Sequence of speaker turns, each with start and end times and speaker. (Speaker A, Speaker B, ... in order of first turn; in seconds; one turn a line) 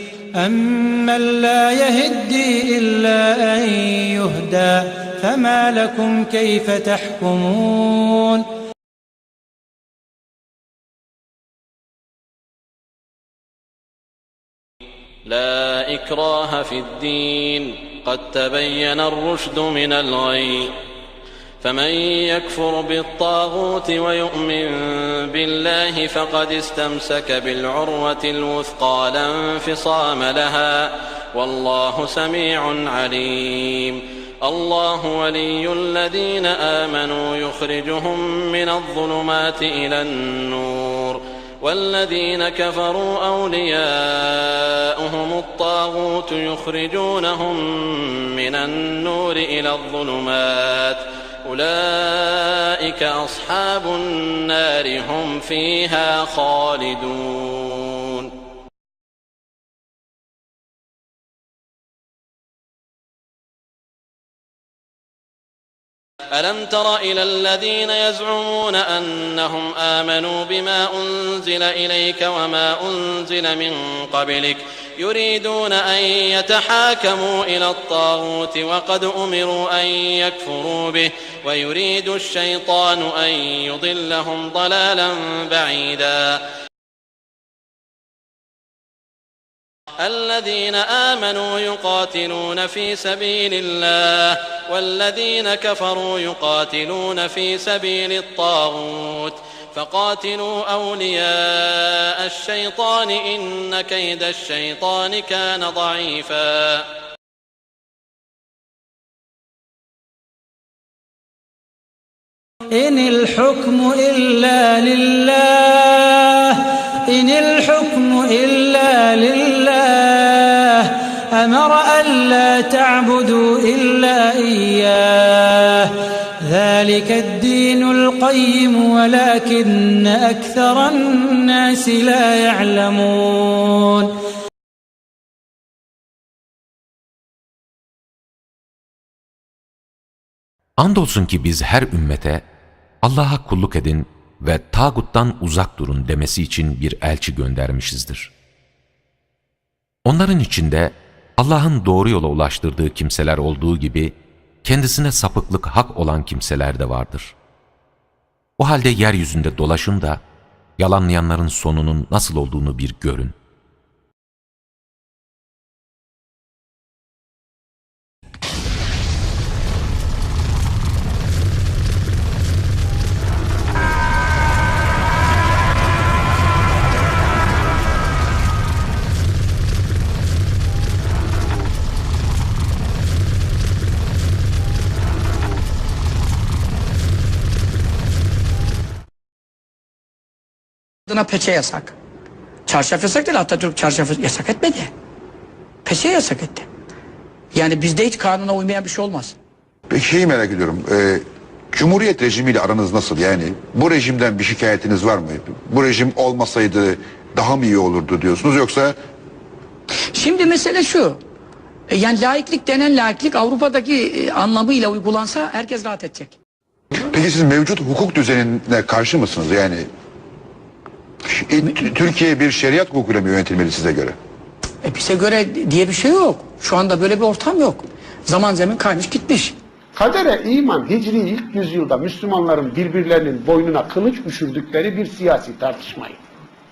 Speaker A: 0.4-8.4
Speaker B: 15.3-20.7
Speaker B: 21.6-58.3
Speaker B: 66.3-86.4
Speaker B: 90.0-106.9
Speaker A: 112.7-134.1
Speaker C: 140.8-142.4
Speaker C: 143.0-148.3
Speaker C: 150.0-157.3
Speaker C: 158.6-160.2
Speaker C: 160.8-163.3
Speaker D: 191.1-191.9
Speaker D: 192.7-194.9
Speaker D: 195.8-196.6
Speaker D: 197.6-199.3
Speaker E: 199.9-201.2
Speaker E: 201.7-208.9
Speaker D: 210.2-211.2
Speaker D: 211.9-216.3
Speaker E: 217.2-219.8
Speaker E: 221.4-224.1
Speaker D: 224.8-229.5
Speaker F: 229.9-236.2